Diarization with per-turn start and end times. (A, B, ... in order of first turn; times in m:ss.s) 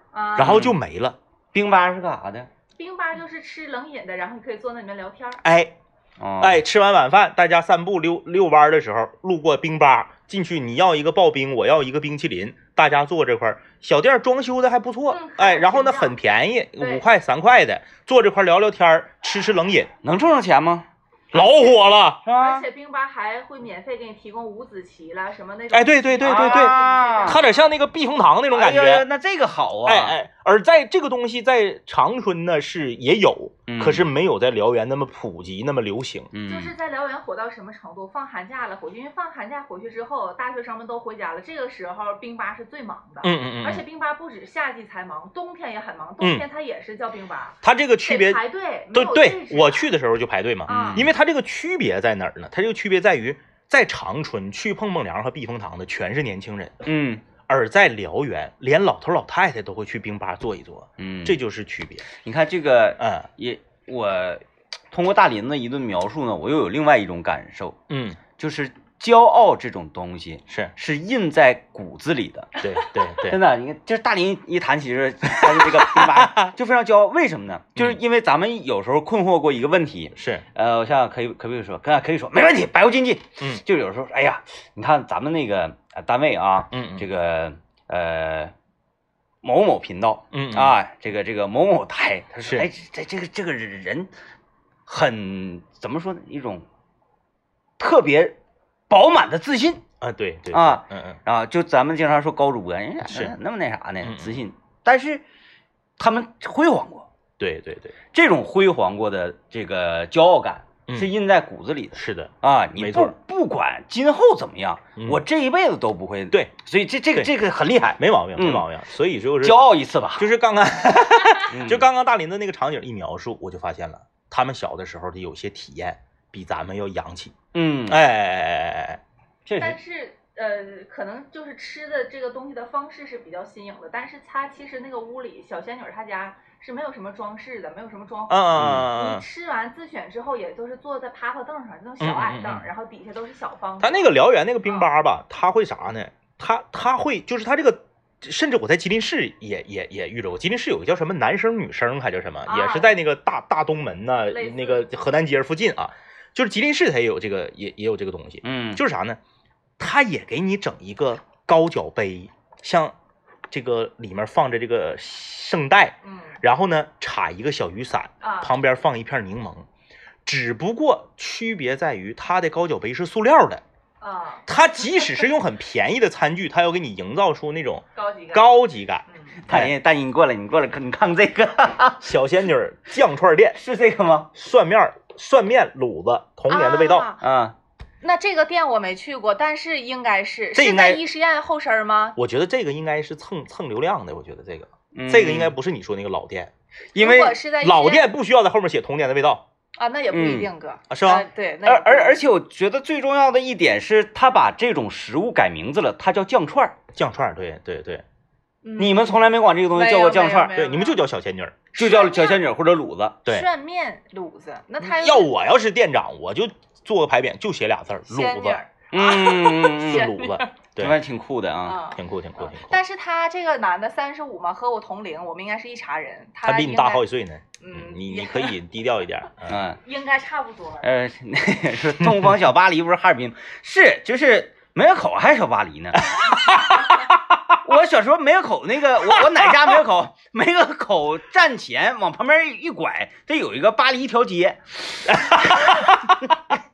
0:00.1-0:00.7 A
0:00.4-0:01.2 B
0:00.4-0:00.8 C
0:01.5-0:02.5 C
0:02.8-0:05.4 A
0:05.4-0:05.7 B
0:06.2-0:06.6 C
0:06.4-0:19.9 B
0:15.1-0:16.2 A
0:16.8-0:17.0 A
0:20.0-0:20.9 C
0:21.3-0:22.2 B
0:22.2-0:22.7 C
0:22.4-0:27.7 A
0:25.7-0:29.1 B
0:26.2-0:27.4 C
0:28.5-0:30.2 C
0:29.9-0:36.3 B
0:33.7-0:34.1 C
0:36.3-0:36.7 C
0:36.5-0:49.9 A
0:43.2-0:43.8 B
0:46.2-0:46.5 B
0:47.6-0:48.4 B
0:48.9-0:56.8 B
0:50.7-0:51.1 A
0:50.7-0:51.1 C
0:56.9-0:57.2 C
0:57.5-1:02.0 B
1:01.0-1:01.4 C
1:02.1-1:07.8 C
1:03.0-1:03.3 B
1:07.9-1:08.2 B
1:08.4-1:12.5 C
1:12.6-1:13.4 B
1:13.2-1:28.5 C
1:15.4-1:16.5 B
1:20.2-1:20.4 B
1:26.7-1:27.1 B
1:29.4-1:34.1 C
1:30.3-1:30.8 B
1:32.4-1:32.7 B
1:34.9-1:36.6 C
1:37.8-1:38.4 C
1:38.9-1:39.8 C
1:40.0-1:41.2 B
1:40.5-1:45.2 C
1:43.0-1:43.4 B
1:44.0-1:44.4 B
1:46.0-1:47.1 C
1:47.4-1:48.0 B
1:48.1-1:58.7 C
1:52.0-1:53.1 B
1:55.0-1:55.2 B
1:58.0-2:07.4 B
1:59.4-2:00.3 C
2:01.4-2:01.9 C
2:07.5-2:08.0 C
2:07.9-2:09.0 B
2:09.5-2:09.8 C
2:09.6-2:24.1 A
2:18.3-2:19.2 B
2:18.6-2:18.9 C
2:22.0-2:22.7 B
2:23.8-2:39.2 B
2:24.6-2:24.9 A
2:32.5-2:33.0 A
2:34.3-2:34.9 A
2:38.4-2:38.8 C
2:39.8-2:43.0 B
2:43.5-2:49.7 B
2:46.0-2:46.4 A
2:48.2-2:48.5 A
2:50.3-2:53.6 B
2:54.0-2:54.5 A
2:54.5-2:59.7 B
2:58.0-2:58.5 A
2:59.1-2:59.4 A
2:59.4-3:02.1 C
3:02.0-3:03.6 B
3:03.6-3:04.3 C
3:04.4-3:07.1 B
3:06.5-3:07.2 A
3:07.2-3:07.6 C
3:08.0-3:12.2 A
3:10.6-3:11.0 B
3:12.2-3:16.5 B
3:14.9-3:15.6 C
3:17.0-3:17.4 C
3:17.0-3:18.1 A
3:17.6-3:19.4 B
3:19.8-3:22.2 A
3:20.1-3:20.5 C
3:20.9-3:21.3 B
3:21.6-3:26.8 C
3:27.0-3:28.0 B
3:28.6-3:29.2 A
3:28.8-3:30.6 C
3:29.7-3:31.0 A
3:30.5-3:31.6 B
3:31.8-3:32.4 A
3:31.8-3:33.2 C
3:33.3-3:35.3 A
3:34.8-3:39.3 B
3:38.1-3:40.5 A
3:38.9-3:40.1 C
3:39.8-3:41.0 B
3:40.8-3:41.8 C
3:41.7-3:47.1 A
3:41.9-3:42.8 B
3:46.4-3:49.6 B
3:47.6-3:48.6 A
3:49.5-3:49.8 C
3:49.8-3:50.9 A
3:50.8-3:56.1 C
3:56.1-3:57.1 B
3:57.6-4:06.5 C
3:59.2-3:59.5 B
4:05.1-4:06.2 B